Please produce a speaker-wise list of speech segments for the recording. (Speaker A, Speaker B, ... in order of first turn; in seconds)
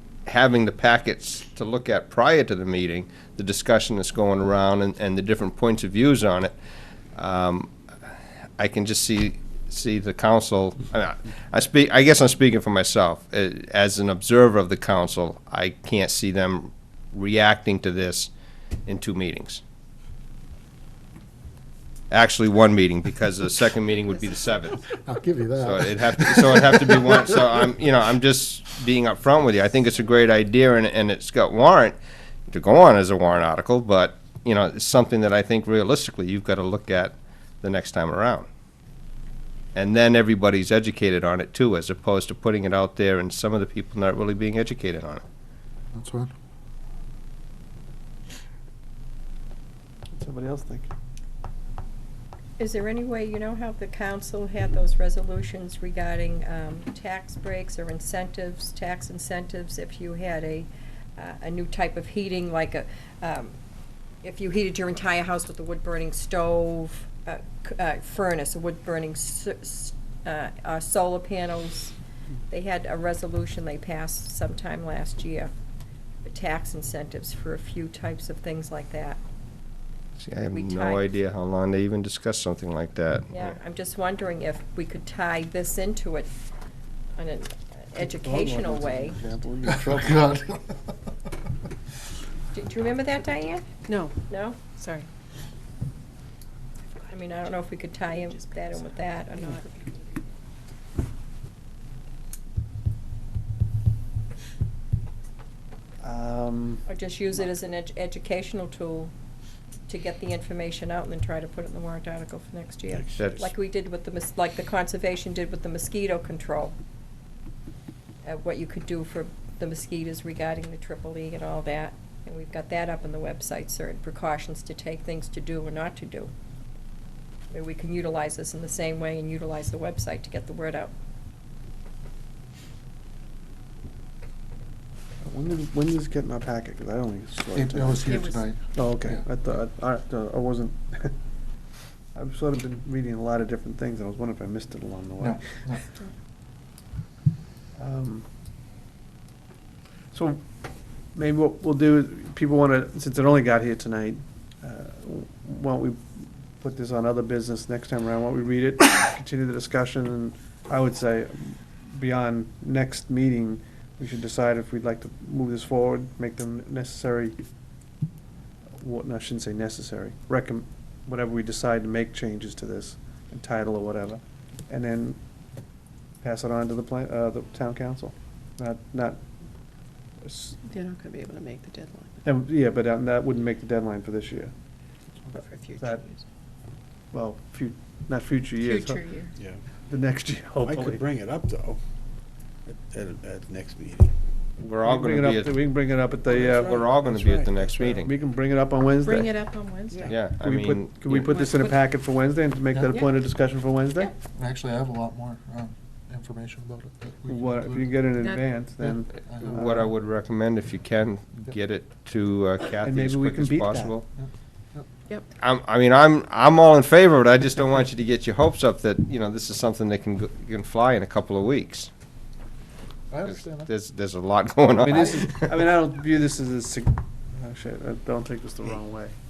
Speaker A: 0.2-6.5, 7.1-7.7, 8.6-18.3, 18.9-19.6, 22.1-24.8, 25.6-32.0, 32.5-38.5, 39.7-45.2, 80.2-83.5, 113.2-113.5, 194.6-195.6, 196.3-198.1, 200.1-201.4, 209.4-214.0, 215.4-221.9, 223.3-225.6
Speaker B: 25.1-26.7, 45.9-46.3, 89.6-90.9, 137.5-139.2, 145.2-145.8, 202.7-203.0, 204.3-208.2, 208.8-209.9, 214.1-214.9, 223.1-223.7
Speaker C: 50.1-50.9, 88.0-90.3, 106.0-106.8, 135.2-138.1, 138.7-141.1, 142.1-145.6, 147.8-148.2, 150.1-150.4, 151.1-167.4, 168.8-175.2, 176.2-179.2, 180.2-180.6, 182.2-184.5, 185.8-186.0, 187.1-189.2, 189.9-191.0, 194.8-196.8, 197.7-199.4, 200.3-204.1, 207.3-209.8, 212.8-214.0, 224.8-229.1
Speaker D: 52.6-63.6, 64.2-71.9, 72.5-75.5, 76.2-79.2, 80.5-81.1, 83.3-86.3, 87.1-89.2, 92.5-93.7, 94.3-94.7, 97.1-99.7, 106.8-109.1, 109.9-116.8, 118.2-126.3, 127.5-130.9, 138.1-138.4
Speaker E: 93.8-94.2, 94.7-95.1, 97.0-97.5, 98.1-99.9, 180.6-182.2, 185.3-186.2, 188.6-189.3, 199.0-200.2, 201.2-201.8, 208.2-208.4
Speaker F: 112.9-113.5, 190.6-191.8, 192.7-194.1, 196.2-197.7